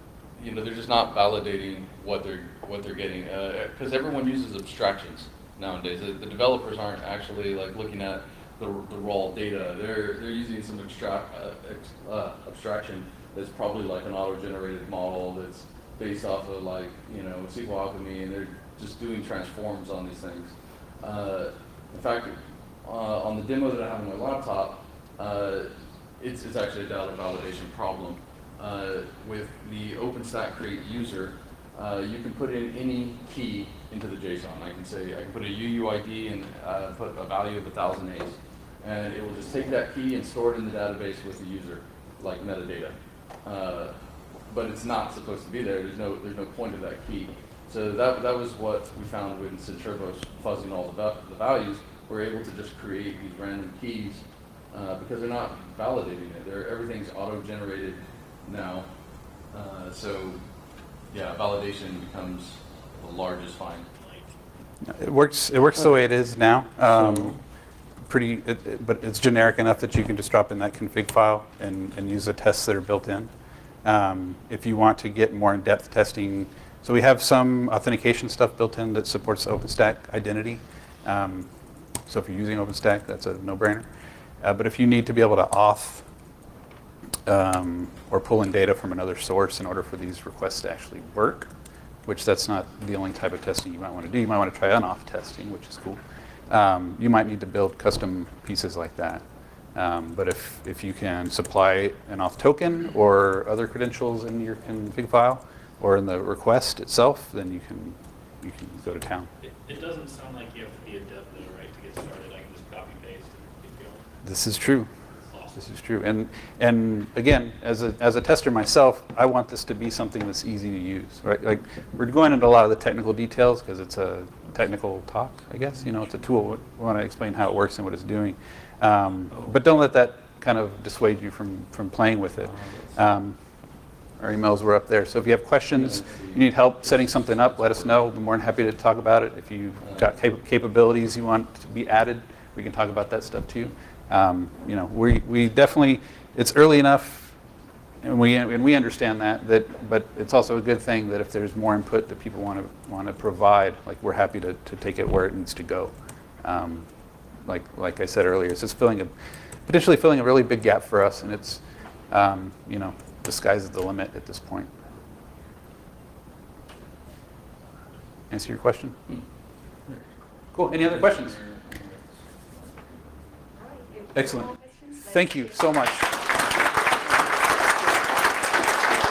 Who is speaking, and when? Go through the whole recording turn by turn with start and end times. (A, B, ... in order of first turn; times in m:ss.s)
0:00.4-0:44.0 A
0:44.5-0:58.9 A
0:59.5-1:00.4 A
1:01.1-1:03.9 A
1:03.9-1:04.3 B
1:04.8-1:07.4 C
1:06.9-1:07.4 A
1:08.0-1:13.3 C
1:13.8-1:21.5 C
1:22.1-1:23.9 C
1:24.4-1:26.1 C
1:27.3-1:31.5 C
1:32.0-1:49.3 C
1:49.4-1:54.0 B
1:54.2-1:54.9 C
1:55.2-1:55.7 B
1:55.6-2:13.4 C
2:12.4-2:13.0 A
2:14.2-2:27.4 C
2:15.7-2:18.1 A
2:19.8-2:20.1 A
2:28.0-2:36.9 C
2:37.4-2:39.1 C
2:39.6-2:44.7 C
2:48.3-2:49.0 C
2:50.5-2:51.4 C
2:50.8-2:52.0 A
2:54.1-2:56.3 C